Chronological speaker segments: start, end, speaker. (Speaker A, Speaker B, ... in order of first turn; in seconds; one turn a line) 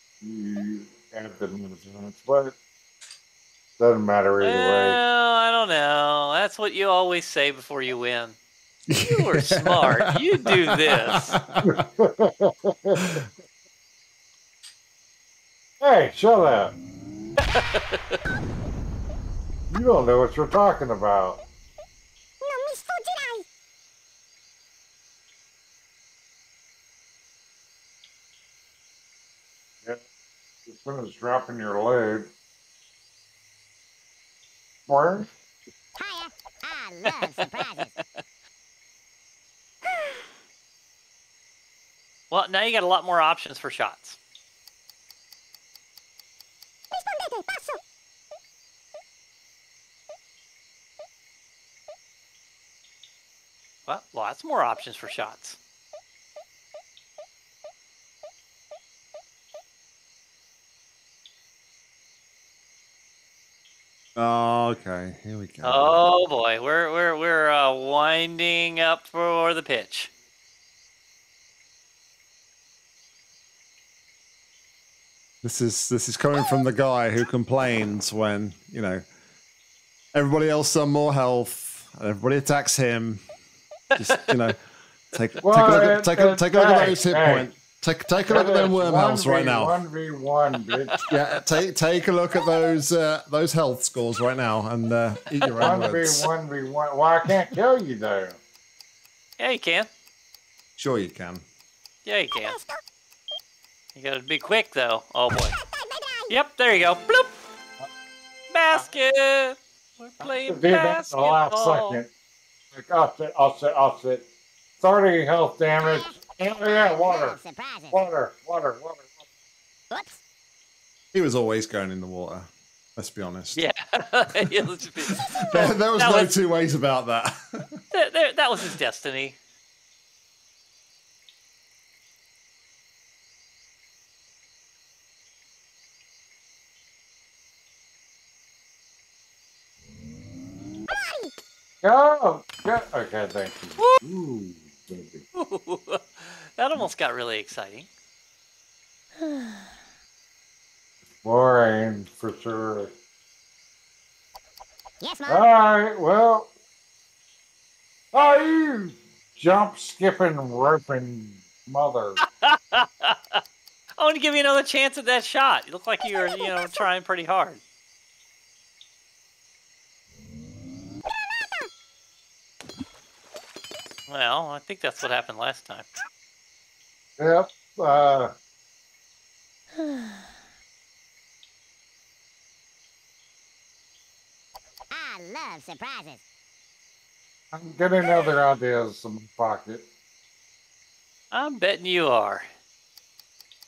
Speaker A: 0.2-2.6
Speaker A: 3.8-5.0
Speaker B: 4.4-8.4
Speaker C: 8.9-11.8
Speaker B: 9.0-11.4
Speaker A: 11.6-13.2
Speaker A: 15.8-16.8
Speaker B: 17.4-18.2
Speaker A: 19.7-21.4
Speaker D: 22.4-23.5
Speaker A: 30.7-32.3
Speaker A: 34.9-35.3
Speaker D: 36.0-38.0
Speaker B: 37.1-38.0
Speaker B: 42.3-44.2
Speaker D: 46.9-47.8
Speaker B: 53.9-55.6
Speaker C: 64.2-66.0
Speaker B: 65.6-70.1
Speaker C: 75.4-79.0
Speaker C: 80.1-83.2
Speaker C: 84.0-84.6
Speaker C: 85.1-89.8
Speaker A: 85.4-87.5
Speaker A: 88.3-91.0
Speaker C: 91.1-96.3
Speaker B: 95.4-95.8
Speaker A: 95.6-98.4
Speaker B: 99.4-99.9
Speaker C: 100.8-101.5
Speaker B: 102.0-102.6
Speaker D: 102.5-102.8
Speaker B: 104.0-105.5
Speaker D: 105.5-106.3
Speaker B: 106.3-107.3
Speaker B: 108.5-112.0
Speaker A: 110.2-112.1
Speaker A: 112.7-114.3
Speaker A: 114.8-117.4
Speaker D: 115.8-118.0
Speaker A: 117.9-119.2
Speaker D: 119.9-120.2
Speaker C: 121.1-123.6
Speaker B: 123.5-126.3
Speaker C: 125.2-127.8
Speaker B: 127.9-129.4
Speaker D: 140.9-141.3
Speaker A: 141.8-145.2
Speaker B: 145.3-147.9
Speaker A: 151.2-152.9
Speaker D: 155.0-155.4
Speaker A: 155.3-156.5
Speaker A: 158.1-162.2
Speaker B: 162.2-163.4
Speaker B: 164.0-167.6
Speaker B: 174.1-175.9
Speaker A: 177.2-178.3
Speaker D: 184.9-186.2
Speaker A: 187.5-189.9
Speaker B: 191.3-192.5